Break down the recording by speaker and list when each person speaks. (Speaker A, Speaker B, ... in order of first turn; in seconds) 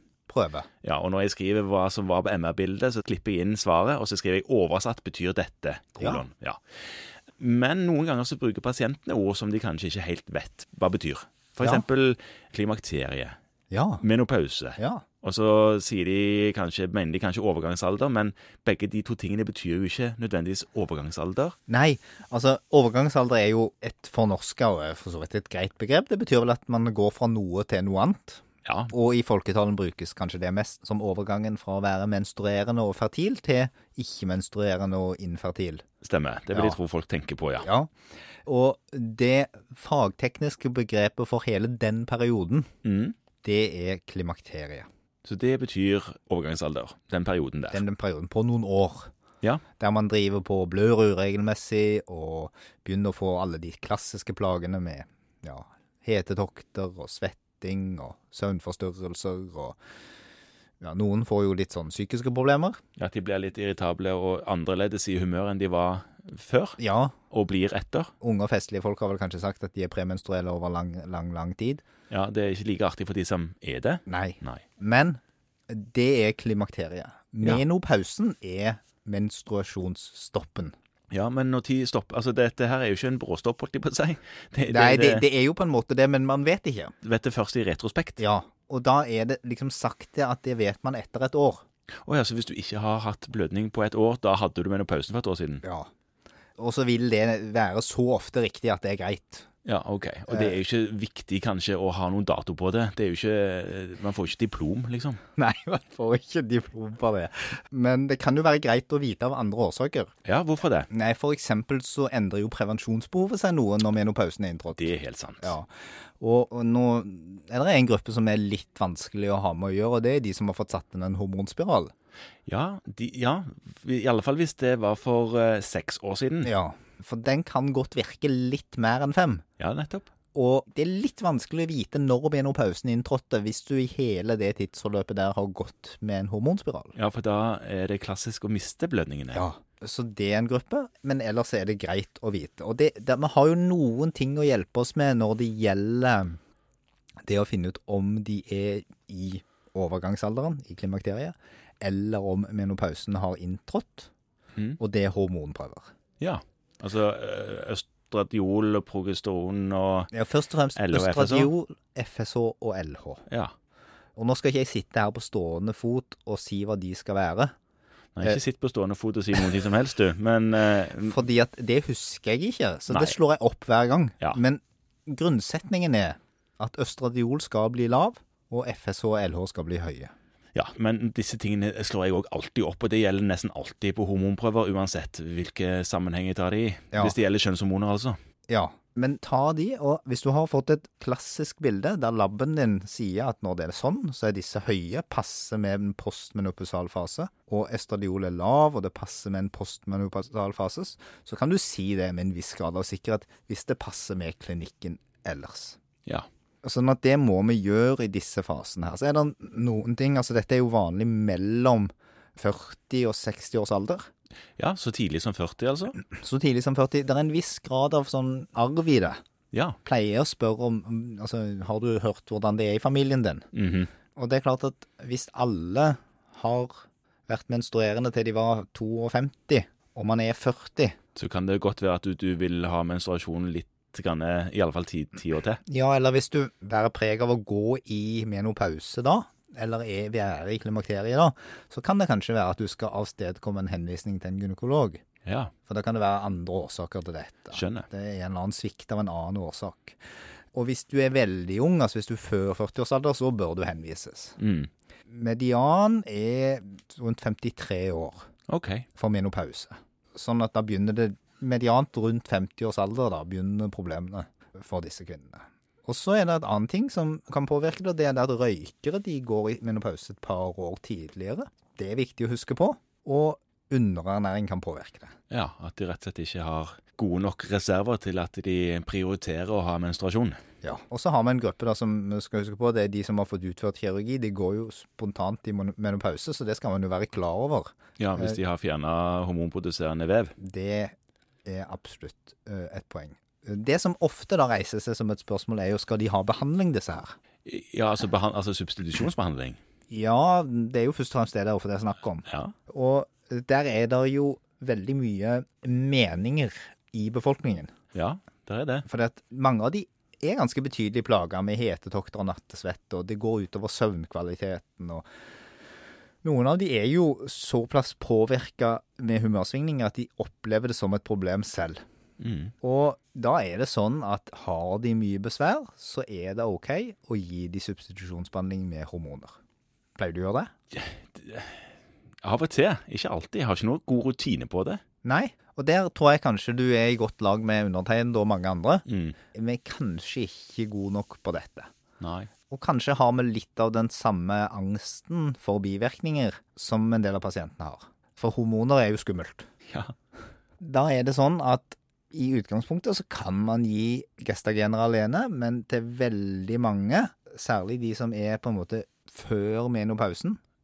Speaker A: 0.3-0.7, 6.0-6.2, 13.7-14.0, 14.8-15.0, 21.7-35.8, 36.5-36.8, 37.6-37.9, 38.5-42.7, 43.4-44.9, 47.7-49.1, 49.8-59.8, 60.8-62.8, 66.8-67.2, 68.2-71.8, 74.1-80.7, 84.7-86.9, 88.2-91.6, 95.6-95.9, 96.6-99.5, 100.3-100.5, 105.4-110.1, 110.9-121.9, 126.4-129.4, 130.3-136.9, 139.3-146.4, 147.2-154.1, 154.8-155.9, 160.1-163.2, 164.2-167.5, 171.0-180.1, 188.5-205.8, 206.6-214.1, 216.0-219.2, 219.8-223.5, 224.2-231.0, 235.7-245.0, 245.7-250.0, 250.5-254.4, 255.1-258.2, 259.0-275.1, 280.6-288.4, 290.4-290.9, 291.4-297.2, 299.9-307.7, 308.9-315.1, 316.2-321.8, 322.6-329.4, 330.0-330.5, 335.0-341.7, 342.5-349.5, 350.6-360.4
Speaker B: 0.8-13.4, 14.0-21.6, 28.6-28.9, 36.0-37.7, 42.8-43.2, 45.2-47.8, 63.0-66.8, 67.3-68.1, 72.1-74.6, 81.1-85.2, 87.0-88.2, 92.1-95.7, 99.7-105.2, 110.2-110.9, 114.8-115.6, 122.5-126.5, 129.6-130.1, 136.9-139.5, 156.2-160.1, 160.8-161.5, 163.3-163.5, 168.2-171.2, 172.9-173.2, 180.6-188.2, 214.6-216.0, 219.5-219.8, 223.5-223.9, 231.2-235.6, 245.2-245.5, 247.5-247.9, 254.4-254.7, 258.5-258.9, 275.3-280.4, 288.0-290.4, 297.4-299.6, 302.3-302.5, 307.9-308.9, 322.2-322.5, 330.7-331.7, 332.2-334.8, 338.9-339.2, 342.0-342.3